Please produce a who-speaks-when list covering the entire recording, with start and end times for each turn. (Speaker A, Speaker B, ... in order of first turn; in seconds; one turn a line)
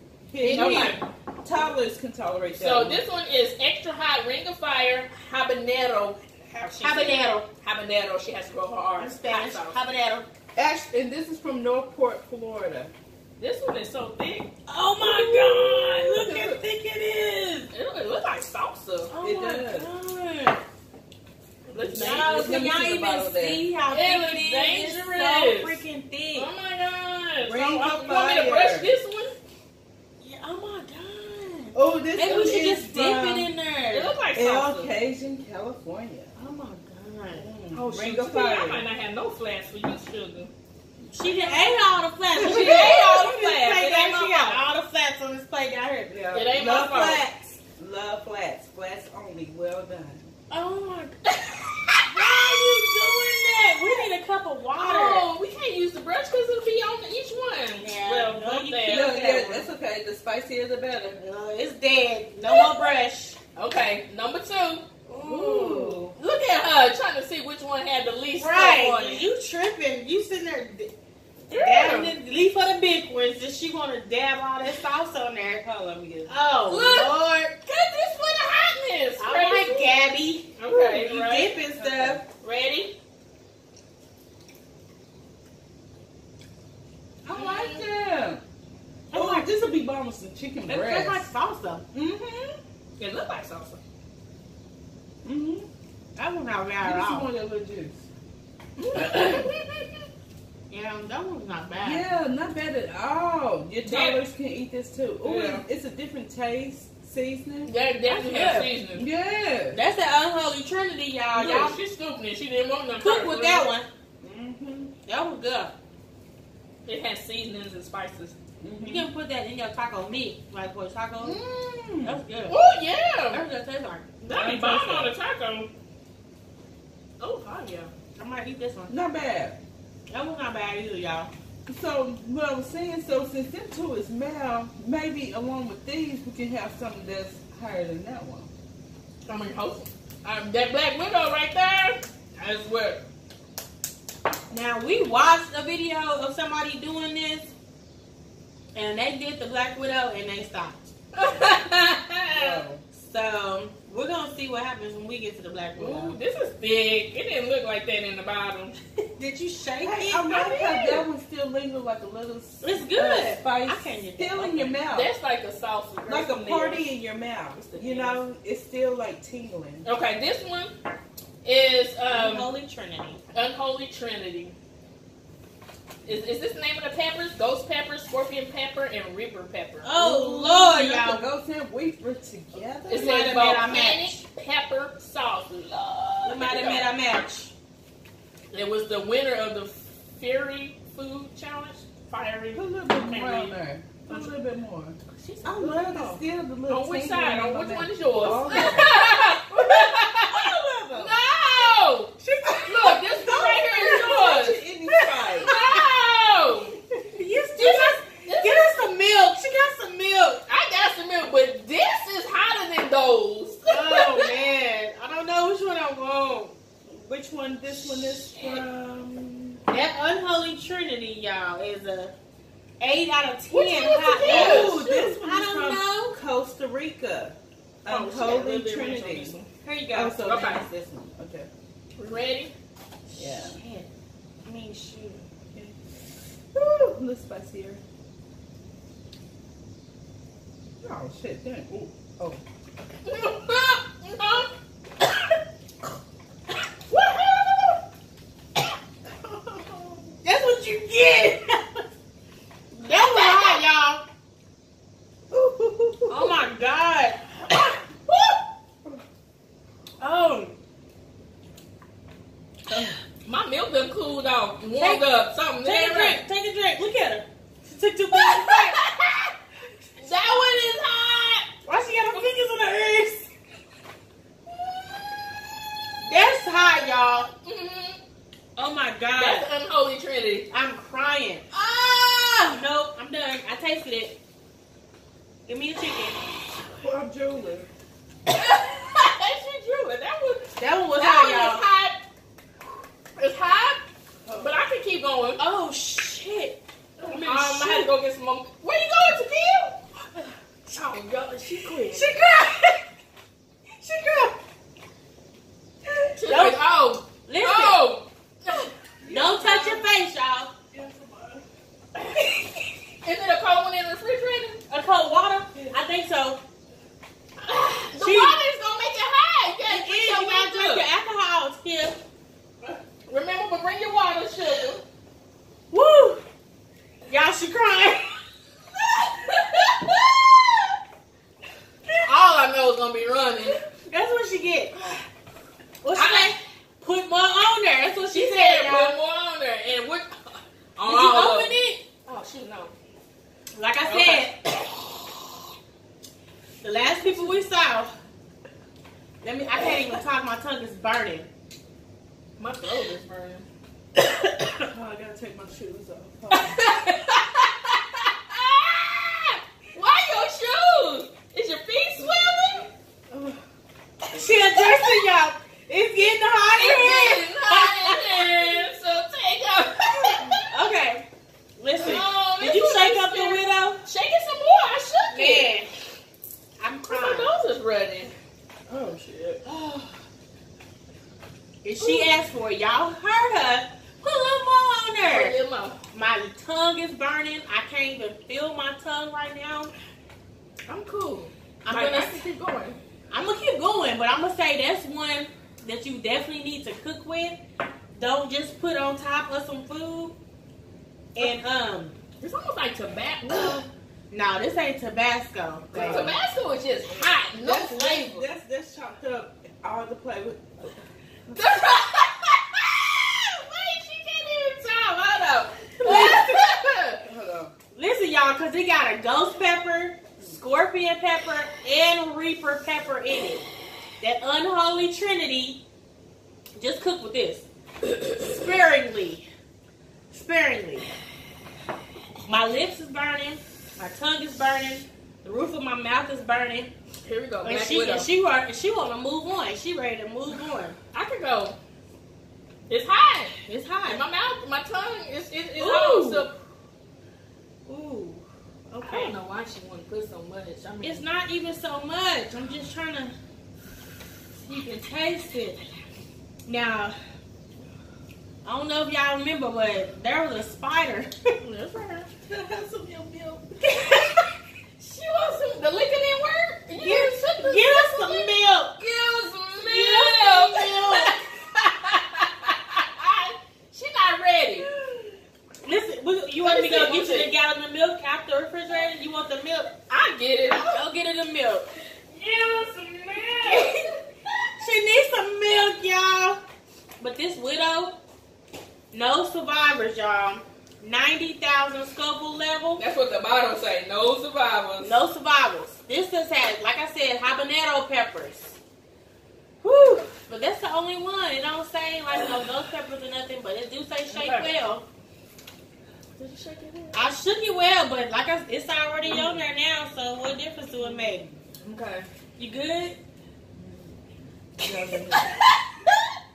Speaker A: 0.3-3.0
Speaker B: 0.4-1.1
Speaker C: 0.5-0.9
Speaker B: 2.5-9.8
Speaker C: 6.8-7.5
Speaker C: 9.0-10.3
Speaker A: 10.6-12.9
Speaker B: 13.4-14.5
Speaker C: 14.7-17.7
Speaker B: 15.1-16.0
Speaker A: 16.2-16.6
Speaker B: 17.7-19.1
Speaker C: 19.1-20.6
Speaker A: 19.2-19.9
Speaker B: 21.7-22.7
Speaker A: 21.8-23.6
Speaker C: 21.9-26.5
Speaker B: 23.9-25.8
Speaker B: 26.4-29.4
Speaker A: 27.4-28.9
Speaker C: 30.2-34.1
Speaker A: 31.7-33.5
Speaker B: 32.2-32.7
Speaker B: 33.9-34.9
Speaker A: 34.3-36.3
Speaker C: 36.4-37.5
Speaker A: 37.3-38.8
Speaker B: 37.7-40.5
Speaker A: 41.0-41.4
Speaker C: 41.1-46.2
Speaker A: 42.4-43.2
Speaker B: 42.4-44.6
Speaker A: 46.1-50.3
Speaker B: 46.3-47.3
Speaker C: 50.5-51.2
Speaker B: 51.5-51.9
Speaker C: 52.0-55.3
Speaker B: 54.8-59.1
Speaker C: 57.8-59.7
Speaker A: 58.8-61.2
Speaker C: 61.2-63.4
Speaker B: 62.5-62.9
Speaker B: 63.6-64.9
Speaker C: 65.1-66.0
Speaker A: 65.2-66.2
Speaker B: 66.2-69.3
Speaker C: 68.4-70.9
Speaker B: 71.5-72.1
Speaker C: 71.5-77.5
Speaker A: 75.7-76.3
Speaker B: 76.7-80.0
Speaker C: 79.2-82.2
Speaker B: 80.6-83.0
Speaker A: 81.8-82.2
Speaker A: 87.2-88.4
Speaker B: 87.3-87.8
Speaker C: 87.4-87.7
Speaker C: 89.1-89.7
Speaker A: 89.1-91.2
Speaker C: 90.7-91.8
Speaker A: 91.9-92.6
Speaker B: 93.0-93.8
Speaker A: 95.2-95.7
Speaker C: 96.2-97.3
Speaker A: 96.8-98.1
Speaker B: 98.8-99.9
Speaker C: 100.7-102.1
Speaker A: 101.8-107.7
Speaker B: 103.8-104.2
Speaker B: 105.3-105.6
Speaker C: 105.3-105.6
Speaker B: 107.7-109.1
Speaker C: 108.1-108.7
Speaker A: 109.0-109.8
Speaker C: 109.7-111.8
Speaker B: 111.3-113.7
Speaker C: 113.0-113.9
Speaker A: 114.2-114.9
Speaker C: 115.1-115.8
Speaker B: 116.9-118.3
Speaker A: 118.6-119.1
Speaker C: 118.8-121.4
Speaker A: 121.2-122.2
Speaker C: 122.0-122.6
Speaker B: 122.5-123.4
Speaker C: 123.3-124.1
Speaker B: 124.2-125.7
Speaker A: 124.3-125.1
Speaker B: 127.2-127.9
Speaker C: 128.2-128.9
Speaker A: 128.9-129.6
Speaker C: 130.1-131.3
Speaker A: 131.7-138.5
Speaker B: 139.3-143.0
Speaker C: 144.5-147.5
Speaker C: 148.8-150.9
Speaker B: 151.2-152.6
Speaker A: 152.3-152.8
Speaker C: 152.9-156.2
Speaker B: 155.8-158.8
Speaker C: 159.2-161.1
Speaker A: 159.8-165.1
Speaker C: 162.6-164.8
Speaker B: 164.9-166.9
Speaker A: 166.1-169.9
Speaker B: 167.6-168.2
Speaker B: 169.8-170.7
Speaker B: 171.4-172.5
Speaker C: 172.1-173.2
Speaker B: 173.3-174.6
Speaker B: 176.1-179.9
Speaker C: 179.8-181.2
Speaker A: 180.0-183.8
Speaker B: 182.9-186.9
Speaker C: 182.9-184.2
Speaker C: 186.2-187.5
Speaker B: 188.5-194.3
Speaker A: 192.6-201.2
Speaker B: 195.1-204.6
Speaker C: 202.2-202.6
Speaker A: 202.4-205.5
Speaker C: 205.1-205.8
Speaker B: 205.4-206.8
Speaker C: 207.1-210.4
Speaker B: 207.6-208.9
Speaker B: 210.5-214.3
Speaker C: 213.7-216.5
Speaker A: 216.8-219.6
Speaker B: 218.1-218.6
Speaker C: 219.7-222.1
Speaker C: 222.8-226.2
Speaker B: 223.5-224.8
Speaker A: 224.2-229.4
Speaker B: 227.9-229.5
Speaker C: 229.6-230.4
Speaker A: 229.9-231.5
Speaker B: 230.3-230.7
Speaker B: 232.0-232.5
Speaker C: 233.1-233.9
Speaker A: 233.2-233.6
Speaker C: 234.4-235.3
Speaker A: 236.5-237.8
Speaker A: 240.8-242.4
Speaker B: 243.1-244.5
Speaker A: 249.3-250.0
Speaker C: 250.2-251.8
Speaker C: 252.8-254.1
Speaker B: 252.9-253.6
Speaker A: 255.3-256.4
Speaker C: 256.1-257.2
Speaker C: 260.0-260.5
Speaker A: 262.7-263.0
Speaker B: 263.2-266.2
Speaker C: 264.8-265.0
Speaker C: 265.6-268.8
Speaker B: 268.1-269.3
Speaker B: 270.0-271.5
Speaker C: 271.6-273.3
Speaker C: 276.0-277.3
Speaker B: 277.4-278.0
Speaker C: 278.6-279.5
Speaker B: 279.2-280.5
Speaker C: 280.5-281.4
Speaker B: 281.5-282.5
Speaker C: 282.4-284.2
Speaker C: 285.5-286.2
Speaker A: 286.7-287.7
Speaker B: 288.3-292.0
Speaker C: 290.6-291.6
Speaker B: 293.2-293.8
Speaker A: 294.2-294.5
Speaker B: 294.4-295.4
Speaker C: 295.4-297.9
Speaker B: 297.0-299.8
Speaker B: 300.7-302.1
Speaker C: 301.9-302.8
Speaker C: 303.8-304.4
Speaker B: 306.2-308.7
Speaker C: 306.2-306.6
Speaker C: 307.2-307.8
Speaker A: 309.0-309.8
Speaker C: 309.1-310.5
Speaker B: 309.4-309.7
Speaker A: 310.7-311.4
Speaker B: 313.0-314.6
Speaker C: 314.7-316.4
Speaker B: 317.4-320.9
Speaker C: 318.0-318.4
Speaker C: 319.7-322.0
Speaker B: 323.1-324.8
Speaker C: 325.7-326.2
Speaker C: 327.1-328.2
Speaker B: 332.0-333.6
Speaker C: 333.7-334.8
Speaker C: 335.8-339.0
Speaker B: 335.9-336.4
Speaker B: 338.0-342.7
Speaker C: 340.9-341.8
Speaker C: 343.5-344.4
Speaker B: 343.9-344.3
Speaker C: 346.6-347.9
Speaker B: 347.0-347.4
Speaker C: 349.2-351.3
Speaker B: 352.4-353.5
Speaker A: 354.6-356.8
Speaker B: 356.3-362.7
Speaker A: 363.1-363.4
Speaker C: 364.1-368.3
Speaker B: 366.3-370.4
Speaker A: 370.1-370.4
Speaker C: 370.4-371.1
Speaker C: 371.6-373.8
Speaker B: 371.8-375.5
Speaker C: 375.1-375.7
Speaker C: 376.6-377.3
Speaker B: 376.9-378.1
Speaker A: 378.7-379.4
Speaker C: 381.6-385.4
Speaker B: 381.8-382.1
Speaker B: 385.1-385.8
Speaker C: 385.9-389.7
Speaker B: 390.7-392.8
Speaker C: 391.6-392.3
Speaker C: 393.1-397.4
Speaker C: 398.0-400.2
Speaker C: 401.1-402.0
Speaker B: 402.2-403.6
Speaker C: 404.1-406.1
Speaker A: 405.7-406.2
Speaker B: 405.8-408.3
Speaker A: 407.4-411.4
Speaker B: 411.3-417.0
Speaker C: 415.8-416.4
Speaker A: 415.8-416.4
Speaker A: 417.0-417.5
Speaker C: 417.8-423.5
Speaker C: 424.0-425.6
Speaker C: 426.6-427.5
Speaker C: 428.1-429.3
Speaker C: 430.1-430.9
Speaker C: 432.2-436.7
Speaker B: 437.0-438.1
Speaker C: 437.4-440.8
Speaker B: 440.9-441.6
Speaker B: 442.7-446.4
Speaker C: 443.5-444.0
Speaker C: 445.6-446.3
Speaker C: 447.7-449.1
Speaker B: 448.8-451.0
Speaker C: 450.8-453.1
Speaker C: 454.4-455.6
Speaker C: 456.5-457.0
Speaker C: 458.4-461.3
Speaker B: 461.4-464.1
Speaker A: 462.3-462.6
Speaker C: 463.6-464.2
Speaker B: 464.8-474.7
Speaker C: 466.8-468.8
Speaker A: 469.6-470.5
Speaker C: 469.8-471.1
Speaker C: 475.6-479.7
Speaker B: 476.4-477.3
Speaker B: 479.9-480.8
Speaker C: 480.7-481.7
Speaker B: 482.1-483.8
Speaker C: 483.5-483.8
Speaker C: 484.6-486.4
Speaker C: 487.0-488.0
Speaker C: 488.9-492.8
Speaker B: 492.8-495.0
Speaker C: 494.8-498.6
Speaker C: 499.6-504.9
Speaker B: 504.1-504.5
Speaker B: 506.2-507.0
Speaker C: 506.9-511.2
Speaker A: 509.1-509.4
Speaker A: 510.8-511.4
Speaker B: 511.6-512.1
Speaker C: 512.4-513.0
Speaker A: 513.6-513.9
Speaker A: 514.6-515.4
Speaker B: 515.1-516.0